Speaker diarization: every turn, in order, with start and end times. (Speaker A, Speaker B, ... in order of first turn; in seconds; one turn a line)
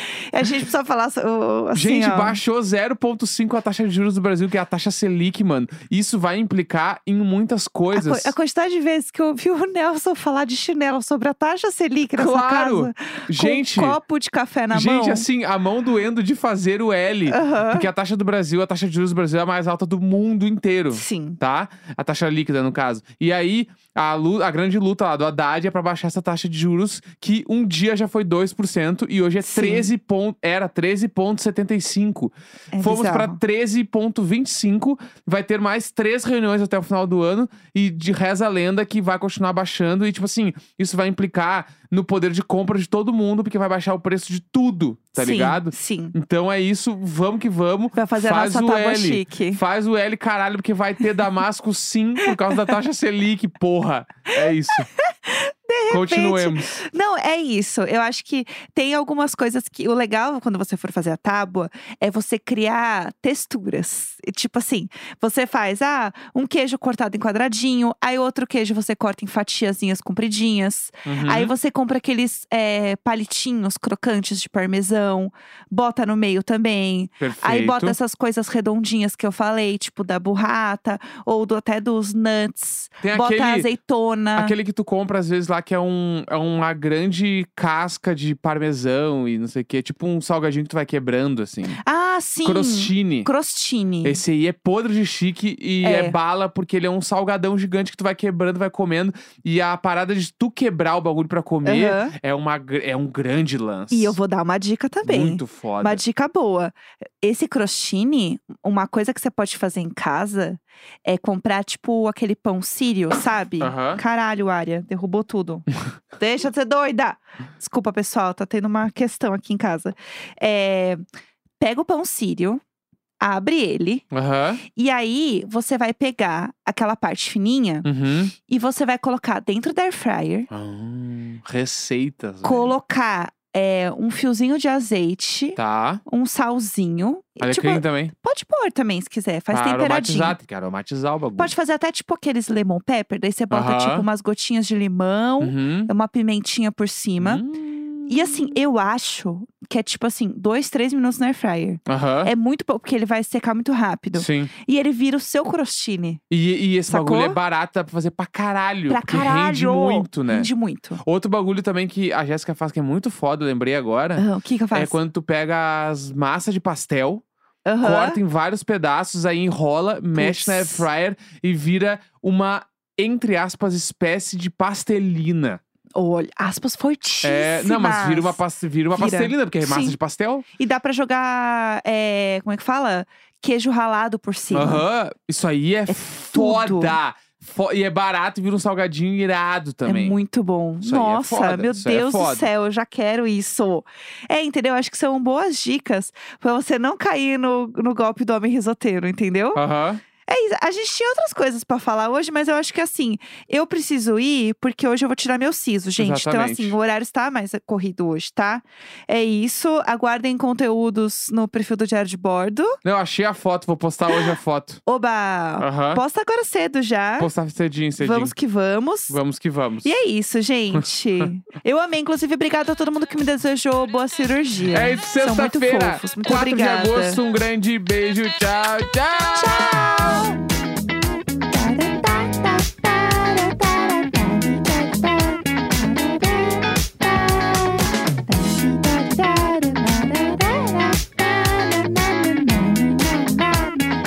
Speaker A: 0.3-2.4
Speaker B: 1.7-8.3
Speaker A: 7.9-15.3
Speaker B: 12.2-14.0
Speaker B: 14.7-54.9
Speaker A: 17.3-17.9
Speaker A: 20.9-21.4
Speaker A: 29.4-29.9
Speaker A: 32.7-33.4
Speaker A: 45.1-46.1
Speaker A: 47.9-49.6
Speaker A: 52.2-52.7
Speaker A: 54.4-84.5
Speaker B: 55.9-56.8
Speaker B: 71.0-71.5
Speaker B: 77.2-78.0
Speaker B: 83.0-83.7
Speaker B: 84.3-91.8
Speaker A: 91.8-94.2
Speaker B: 92.4-93.3
Speaker B: 94.0-104.2
Speaker A: 95.8-96.2
Speaker A: 101.6-102.1
Speaker A: 103.9-121.0
Speaker B: 105.0-106.0
Speaker B: 113.6-114.0
Speaker A: 121.6-122.6
Speaker A: 123.2-124.0
Speaker B: 124.1-124.6
Speaker A: 124.7-127.9
Speaker B: 127.8-128.3
Speaker A: 128.4-130.5
Speaker B: 130.5-132.7
Speaker A: 132.4-140.4
Speaker B: 135.6-136.0
Speaker B: 137.4-138.1
Speaker B: 139.5-141.5
Speaker A: 141.4-147.4
Speaker B: 143.5-144.1
Speaker B: 145.4-145.9
Speaker B: 147.2-148.6
Speaker A: 148.1-156.2
Speaker B: 151.9-152.3
Speaker B: 154.1-154.5
Speaker B: 156.3-160.5
Speaker A: 156.9-157.4
Speaker A: 158.9-161.0
Speaker B: 161.0-167.2
Speaker A: 164.2-165.0
Speaker A: 167.7-168.2
Speaker B: 167.8-175.6
Speaker A: 170.1-170.9
Speaker A: 175.9-178.4
Speaker B: 177.2-180.4
Speaker A: 178.9-180.0
Speaker A: 180.6-184.8
Speaker B: 184.5-190.2
Speaker A: 185.9-187.0
Speaker A: 189.8-199.6
Speaker B: 190.8-192.5
Speaker B: 199.5-200.0
Speaker A: 200.2-212.8
Speaker B: 206.0-206.7
Speaker B: 212.8-214.8
Speaker A: 214.8-217.3
Speaker B: 215.6-216.0
Speaker B: 217.2-218.3
Speaker A: 218.0-219.2
Speaker B: 219.1-219.9
Speaker A: 219.8-227.2
Speaker B: 224.7-230.3
Speaker A: 229.3-230.4
Speaker A: 231.5-243.9